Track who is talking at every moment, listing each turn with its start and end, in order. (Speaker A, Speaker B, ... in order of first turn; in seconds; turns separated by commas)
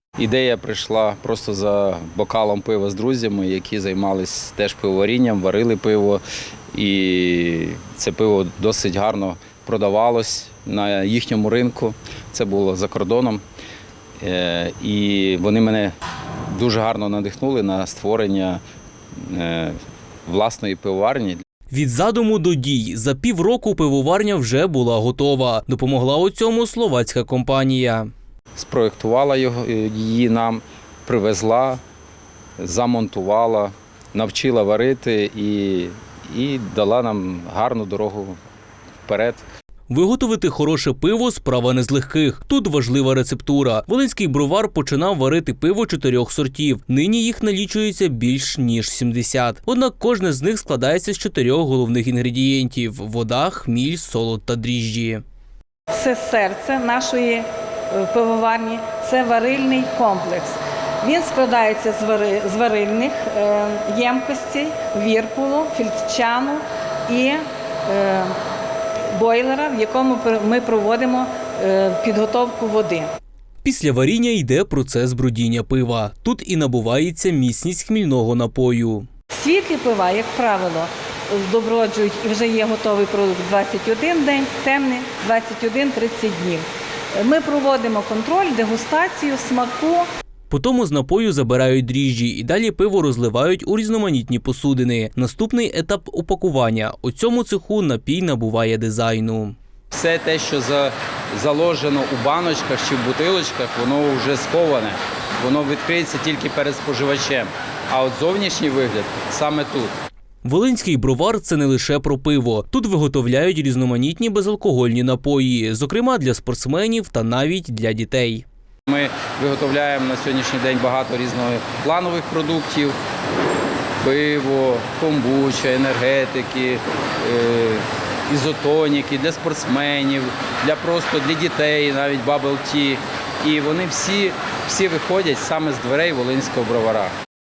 Speaker A: 0.2-6.2, Speaker A: 6.7-13.4, Speaker A: 14.2-15.9, Speaker A: 16.5-18.6, Speaker A: 19.1-21.4, Speaker B: 21.7-28.1, Speaker A: 28.6-31.8, Speaker A: 32.6-38.4, Speaker A: 39.0-39.4, Speaker B: 39.9-55.2, Speaker C: 55.9-68.4, Speaker C: 69.1-73.1, Speaker B: 73.6-79.1, Speaker C: 79.3-90.1, Speaker B: 90.5-99.5, Speaker A: 99.9-109.9, Speaker B: 110.4-118.4, Speaker A: 118.9-123.0, Speaker A: 124.0-137.1